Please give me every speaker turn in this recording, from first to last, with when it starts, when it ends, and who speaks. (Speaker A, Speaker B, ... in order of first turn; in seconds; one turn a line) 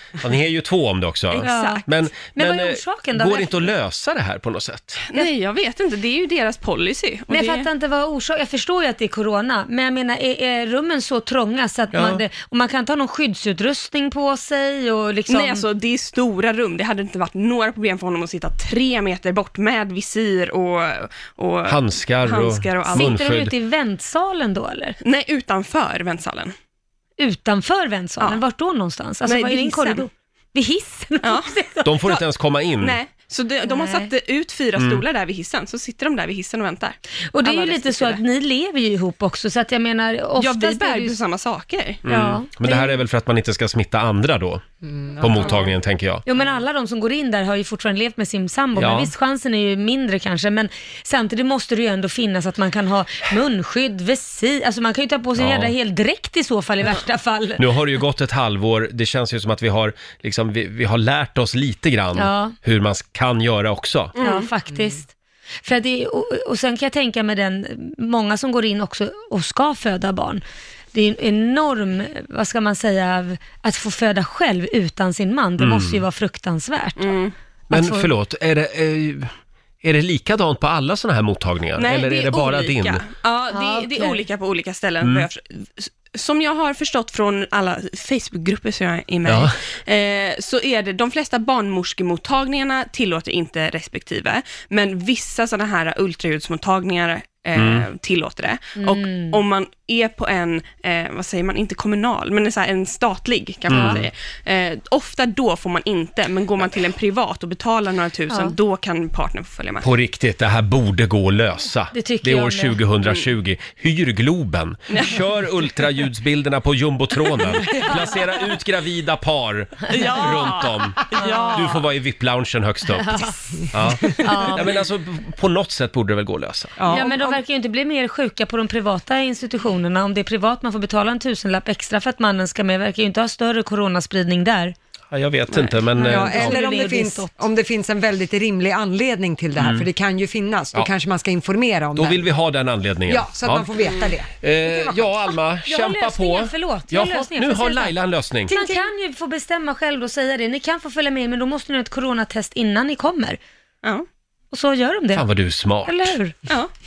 Speaker A: 0.2-5.0
Speaker B: 1.4-3.7
Speaker C: 1.4-1.8
Speaker C: 5.1-7.7
Speaker B: 7.3-15.7
Speaker A: 11.9-12.2
Speaker C: 15.3-23.1
Speaker A: 21.7-23.5
Speaker B: 22.9-25.0
Speaker C: 25.0-26.5
Speaker B: 27.2-32.2
Speaker C: 29.2-30.1
Speaker C: 31.2-31.5
Speaker A: 31.9-33.0
Speaker C: 32.8-38.2
Speaker B: 33.7-34.1
Speaker A: 34.8-35.0
Speaker B: 37.3-41.2
Speaker C: 40.4-42.0
Speaker A: 42.0-44.6
Speaker B: 42.1-43.0
Speaker D: 44.8-45.6
Speaker A: 45.2-46.2
Speaker B: 46.3-57.6
Speaker A: 48.8-49.1
Speaker A: 55.4-55.7
Speaker A: 57.6-64.2
Speaker B: 62.2-62.6
Speaker C: 64.2-64.5
Speaker B: 64.2-65.1
Speaker B: 65.7-70.4
Speaker B: 70.9-77.2
Speaker A: 75.6-76.0
Speaker C: 77.0-77.3
Speaker B: 77.7-78.1
Speaker A: 77.7-79.3
Speaker A: 79.8-83.0
Speaker C: 81.8-109.9
Speaker B: 83.5-84.2
Speaker A: 85.0-85.3
Speaker A: 89.3-89.6
Speaker A: 97.6-97.8
Speaker B: 98.8-99.4
Speaker A: 103.7-104.1
Speaker B: 103.7-104.0
Speaker A: 109.8-123.2
Speaker B: 111.9-112.8
Speaker C: 114.9-115.2
Speaker C: 119.9-121.7
Speaker B: 121.2-121.6
Speaker D: 121.2-121.4
Speaker B: 122.9-124.8
Speaker A: 123.7-126.8
Speaker D: 126.8-127.4
Speaker B: 126.9-134.8
Speaker A: 135.1-136.6
Speaker C: 135.5-135.8
Speaker B: 136.0-137.3
Speaker D: 136.0-142.2
Speaker A: 139.6-139.9
Speaker A: 142.0-143.7
Speaker D: 143.1-145.3
Speaker A: 144.4-148.5
Speaker B: 145.7-147.9
Speaker D: 148.5-148.9
Speaker B: 148.5-153.4
Speaker B: 154.5-155.3
Speaker A: 155.1-156.2
Speaker B: 155.8-156.3